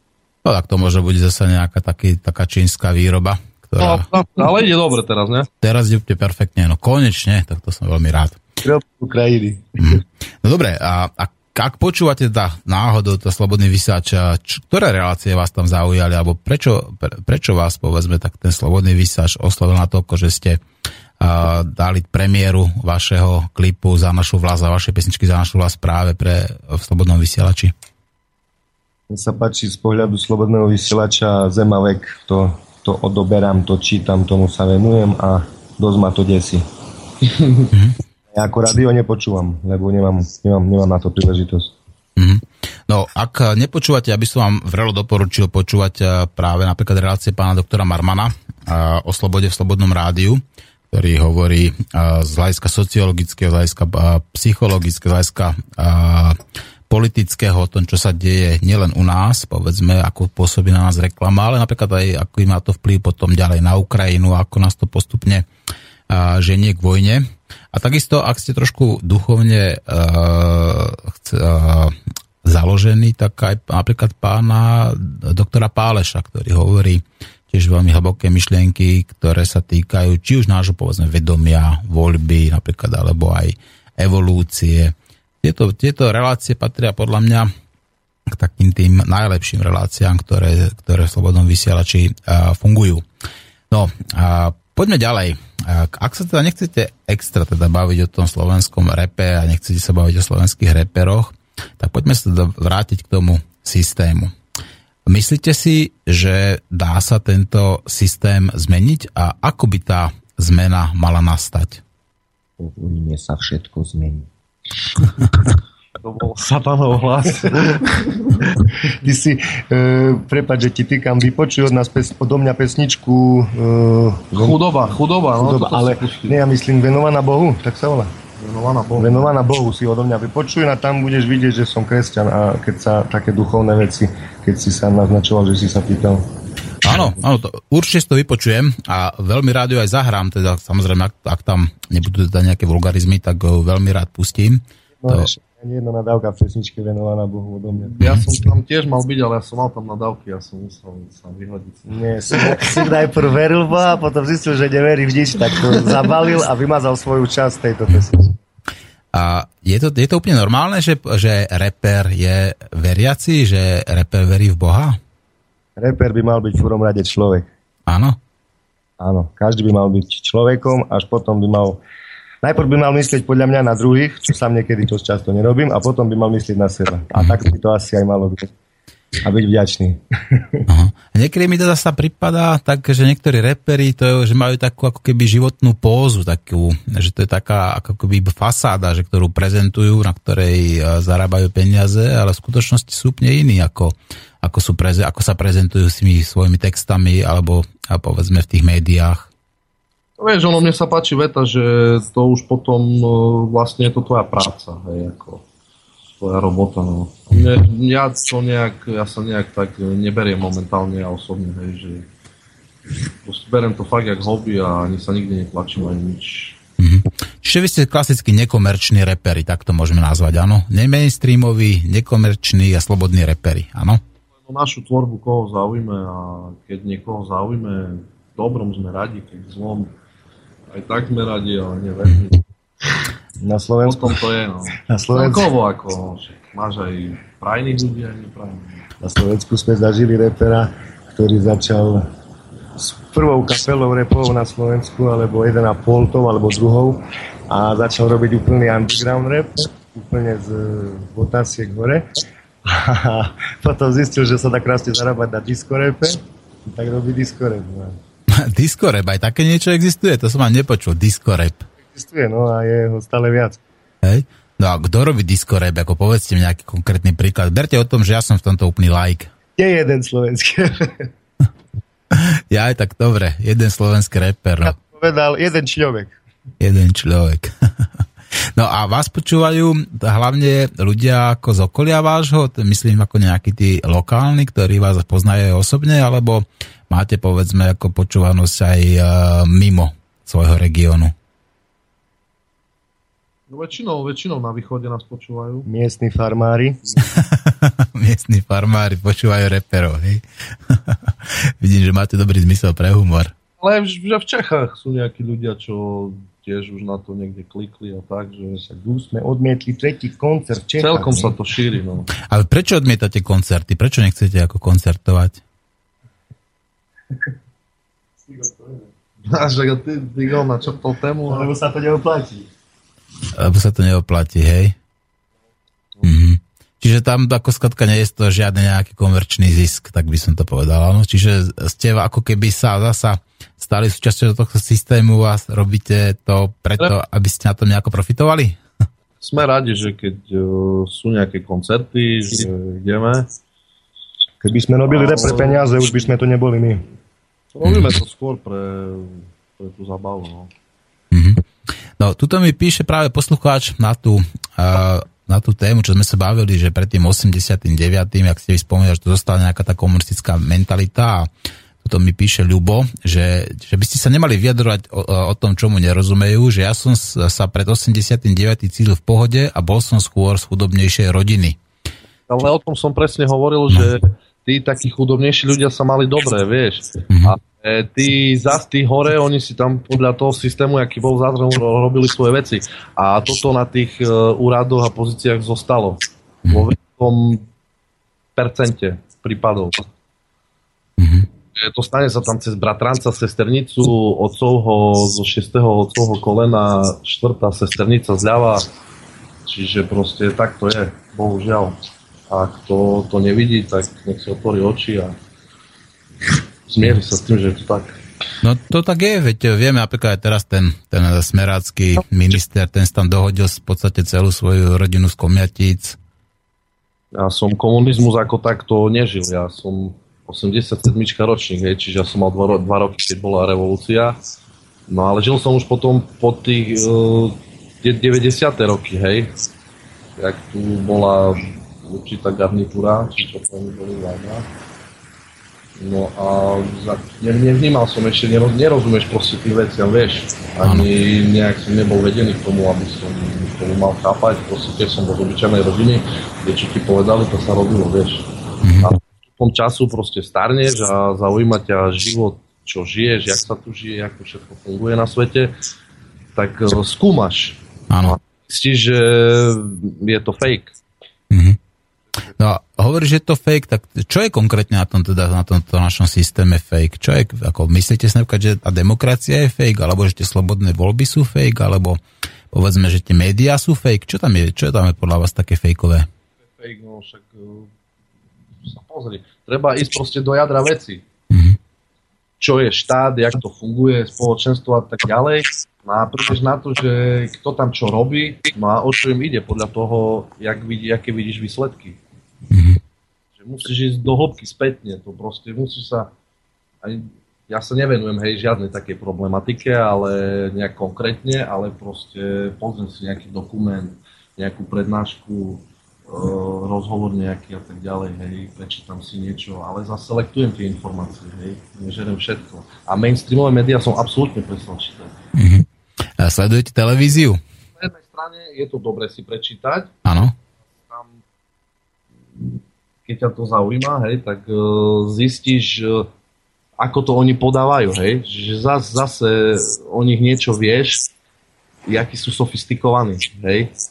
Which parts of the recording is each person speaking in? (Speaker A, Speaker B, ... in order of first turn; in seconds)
Speaker A: 0.5-4.1, 5.6-8.4, 9.8-20.6, 21.2-27.7, 42.2-56.4, 56.9-65.5, 66.1-87.5, 88.3-93.0, 93.7-104.3, 105.1-111.8, 136.8-145.3, 159.1-165.0, 167.9-168.2, 180.7-199.3, 216.8-224.0, 258.3-261.7, 264.0-269.3, 272.1-274.8, 276.6-277.5, 278.6-291.1, 297.1-303.3, 312.3-315.4, 323.3-324.8, 326.0-338.6, 347.6-347.9, 351.1-351.4, 352.0-361.3, 361.8-371.6, 391.0-391.3, 408.4-416.0, 448.6-448.9, 457.9-458.2, 461.3-461.6, 462.4-472.0, 472.5-476.1, 481.3-481.6, 492.5-492.8, 515.4-515.7, 516.2-517.4, 520.0-520.3
Speaker B: 3.8-5.5, 116.0-118.4, 124.3-126.4, 128.4-129.3, 147.9-152.8, 200.2-205.4, 206.2-212.1, 213.2-216.6, 224.4-229.9, 230.7-232.4, 233.8-238.8, 293.5-295.7, 303.6-308.6, 310.8-312.1, 319.3-321.5, 339.2-343.3, 344.9-346.1, 347.5-350.5, 372.3-387.5, 388.4-389.9, 391.6-398.7, 399.5-401.8, 402.3-405.2, 406.7-408.0, 417.1-424.2, 424.9-429.4, 430.2-434.5, 435.8-448.3, 448.8-455.6, 456.4-460.8, 476.6-477.7, 478.6-481.1, 482.4-492.0, 493.4-496.1, 496.8-515.1, 517.8-519.9, 520.8-521.2, 523.1-526.1, 526.8-531.1, 531.9-533.7
Speaker C: 8.6-10.0, 29.1-36.6, 38.3-41.8, 112.6-114.3, 118.8-124.6, 125.4-128.1, 129.0-136.2, 145.0-147.9, 151.9-158.4, 165.8-167.5, 169.0-171.8, 172.4-178.5, 179.2-180.7, 233.4-235.5, 239.0-242.1, 242.8-252.1, 252.6-258.0, 261.8-263.6, 269.6-271.1, 274.6-276.2, 295.6-297.0, 308.6-311.3, 318.3-318.9, 321.3-322.5, 344.4-346.9